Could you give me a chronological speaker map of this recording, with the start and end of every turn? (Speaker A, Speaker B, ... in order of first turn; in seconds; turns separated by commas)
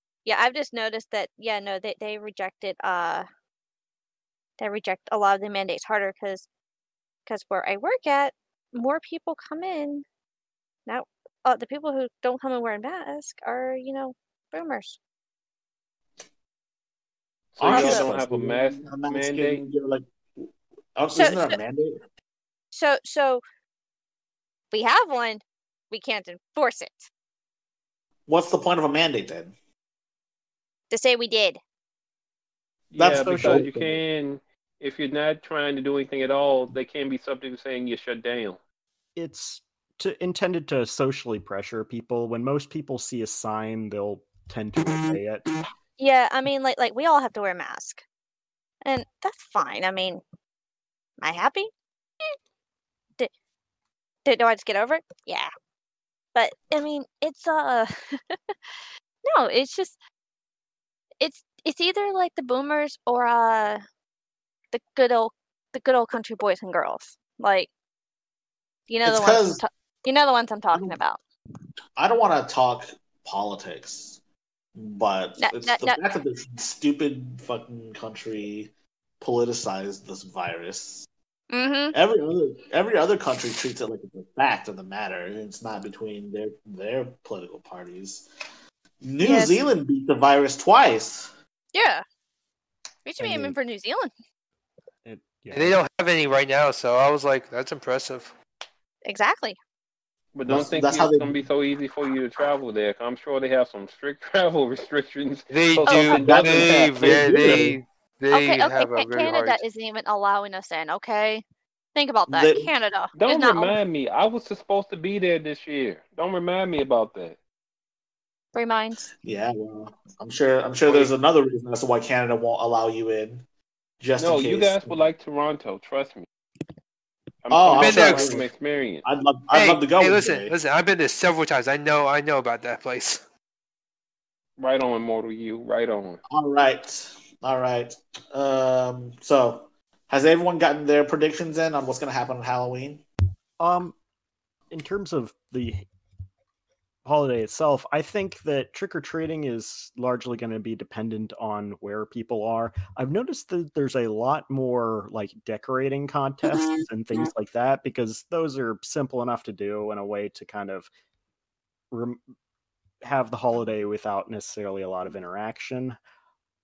Speaker A: 0.2-3.2, Speaker A: 4.6-6.5, Speaker A: 7.2-10.0, Speaker A: 10.8-15.0, Speaker B: 17.5-19.6, Speaker C: 17.6-22.0, Speaker A: 17.6-18.1, Speaker A: 21.1-21.6, Speaker A: 22.7-23.4, Speaker A: 24.7-27.1, Speaker C: 28.3-29.5, Speaker A: 30.9-31.6, Speaker B: 32.9-38.6, Speaker C: 32.9-33.7, Speaker D: 33.0-34.0, Speaker D: 39.1-45.5, Speaker A: 46.0-48.0, Speaker A: 48.8-50.2, Speaker A: 51.2-51.7, Speaker A: 54.2-55.5, Speaker A: 56.3-58.5, Speaker A: 59.2-60.0, Speaker A: 61.2-63.8, Speaker A: 64.7-67.7, Speaker A: 68.9-71.2, Speaker C: 69.0-69.6, Speaker C: 70.7-71.0, Speaker C: 72.0-74.2, Speaker C: 74.7-81.1, Speaker A: 75.4-76.0, Speaker A: 81.5-81.9, Speaker C: 81.9-88.3, Speaker C: 89.0-91.3, Speaker A: 89.2-89.6, Speaker A: 91.7-92.0, Speaker A: 93.0-94.1, Speaker D: 93.2-93.5, Speaker D: 95.0-95.8, Speaker E: 95.5-98.3, Speaker A: 99.0-99.6, Speaker B: 100.3-107.7, Speaker C: 100.4-101.5, Speaker E: 105.5-109.6, Speaker A: 105.8-106.2, Speaker C: 106.1-107.8, Speaker A: 108.3-111.4, Speaker A: 111.9-113.8, Speaker C: 112.3-112.7, Speaker B: 113.1-117.4, Speaker A: 118.5-119.1, Speaker C: 119.2-123.4, Speaker C: 124.0-125.1, Speaker B: 124.2-126.3, Speaker B: 127.4-129.0, Speaker C: 127.5-128.5, Speaker E: 127.7-128.4, Speaker C: 129.0-130.5, Speaker E: 129.5-133.2, Speaker B: 134.6-136.2, Speaker C: 136.3-143.0, Speaker D: 143.6-143.9, Speaker D: 144.7-145.9, Speaker D: 147.0-160.9, Speaker D: 161.9-162.2, Speaker D: 163.0-166.0